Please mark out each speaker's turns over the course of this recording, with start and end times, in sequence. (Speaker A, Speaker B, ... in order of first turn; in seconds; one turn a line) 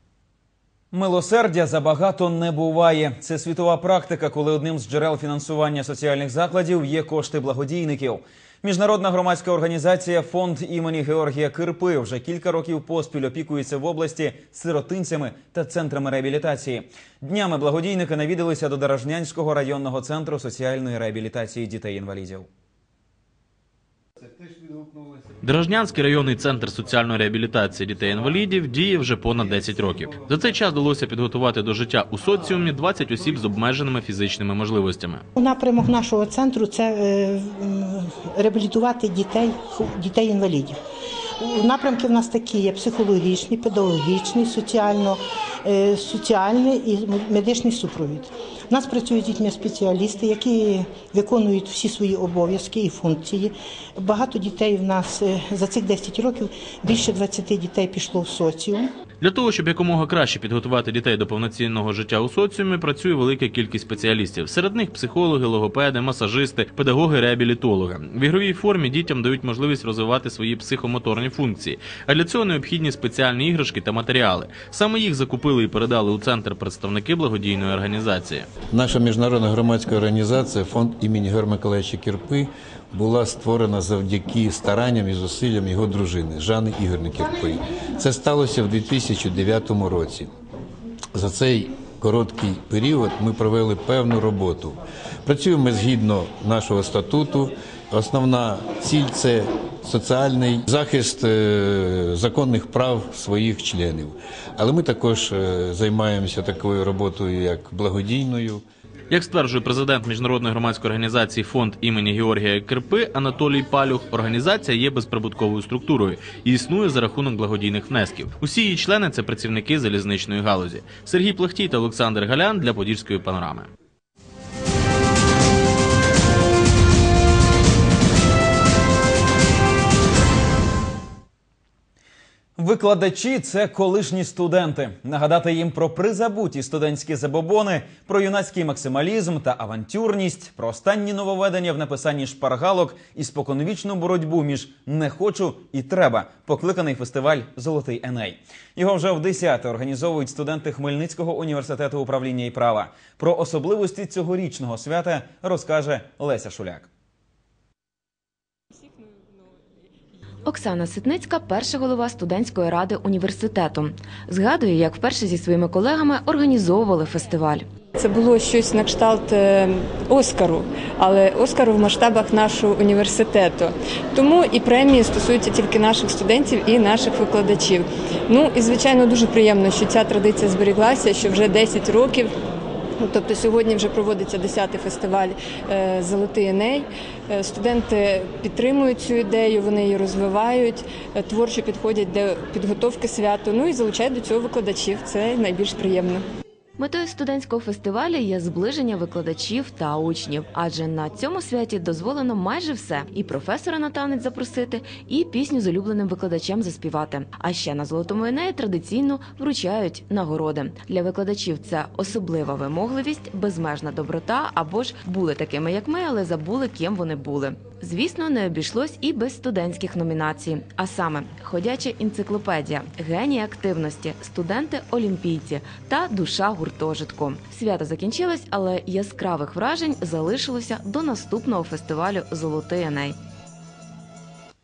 Speaker A: 0.9-22.5
Speaker B: 25.4-35.2
Speaker C: 35.4-40.8
Speaker C: 41.4-58.9
Speaker B: 59.2-78.5
Speaker D: 78.7-90.3
Speaker D: 91.1-108.6
Speaker B: 109.1-123.7
Speaker A: 132.6-156.9
Speaker E: 160.5-167.7
Speaker F: 167.9-182.3
Speaker F: 183.0-196.2
Speaker E: 196.8-233.2